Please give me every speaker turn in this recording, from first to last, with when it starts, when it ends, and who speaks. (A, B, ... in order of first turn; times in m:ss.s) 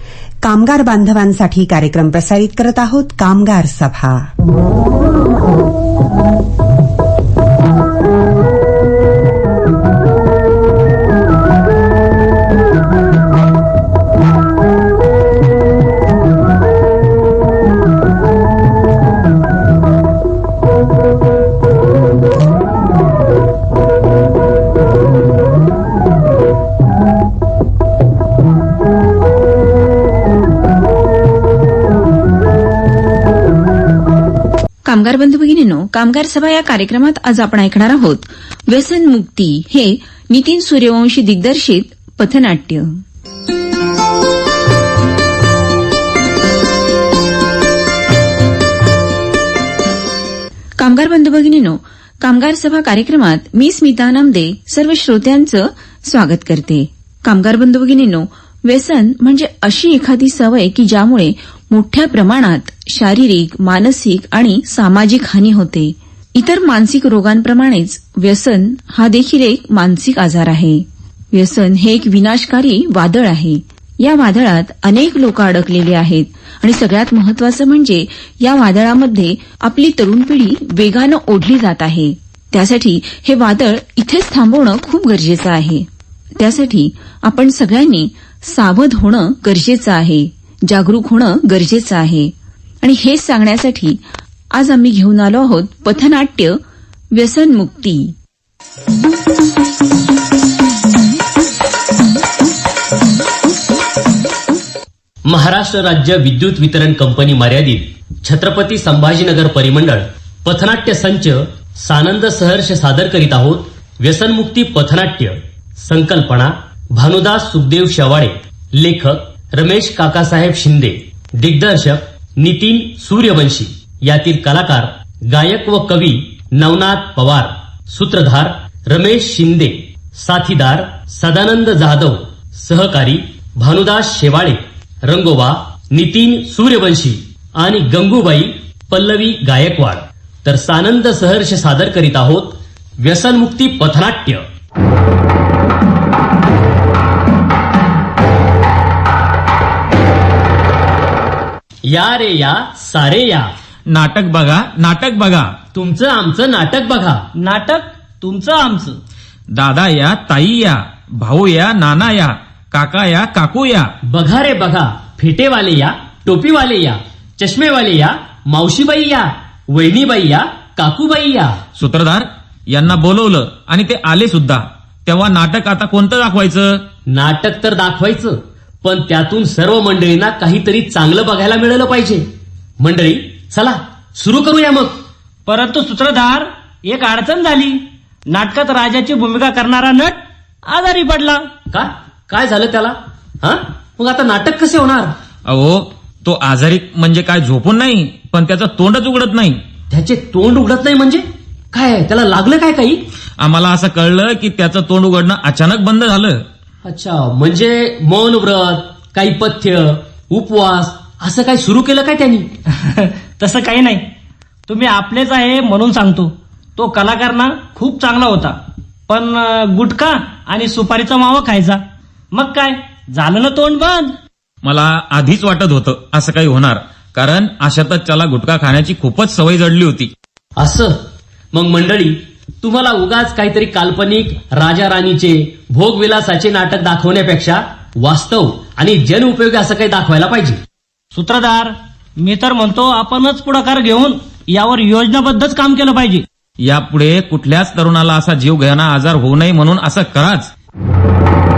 0:00.4-0:04.2 A
0:34.9-0:42.9 B
0:50.8-1:25.9 B
1:26.4-1:32.3 B
1:32.8-1:34.0 B
1:34.6-1:36.6 B
1:37.2-1:38.1 B
1:45.3-2:24.4 C
2:31.9-2:33.5 C
2:33.9-2:35.5 D
2:35.8-2:37.2 C
2:37.4-2:39.0 E
2:39.6-2:43.9 D
2:44.1-2:51.6 C
2:51.8-2:56.8 D
2:57.1-3:02.3 C
3:02.8-3:05.0 C
3:05.5-3:11.5 E
3:11.7-3:15.1 C
3:15.5-3:19.6 D
3:19.9-3:23.0 C
3:23.4-3:26.4 D
3:26.8-3:32.5 C
3:32.9-3:34.1 E
3:34.7-3:38.6 E
3:39.1-3:41.8 E
3:42.3-3:44.1 E
3:44.6-3:50.1 D
3:50.6-3:50.9 C
3:51.5-4:00.6 C
4:01.2-4:06.2 E
4:06.6-4:10.5 D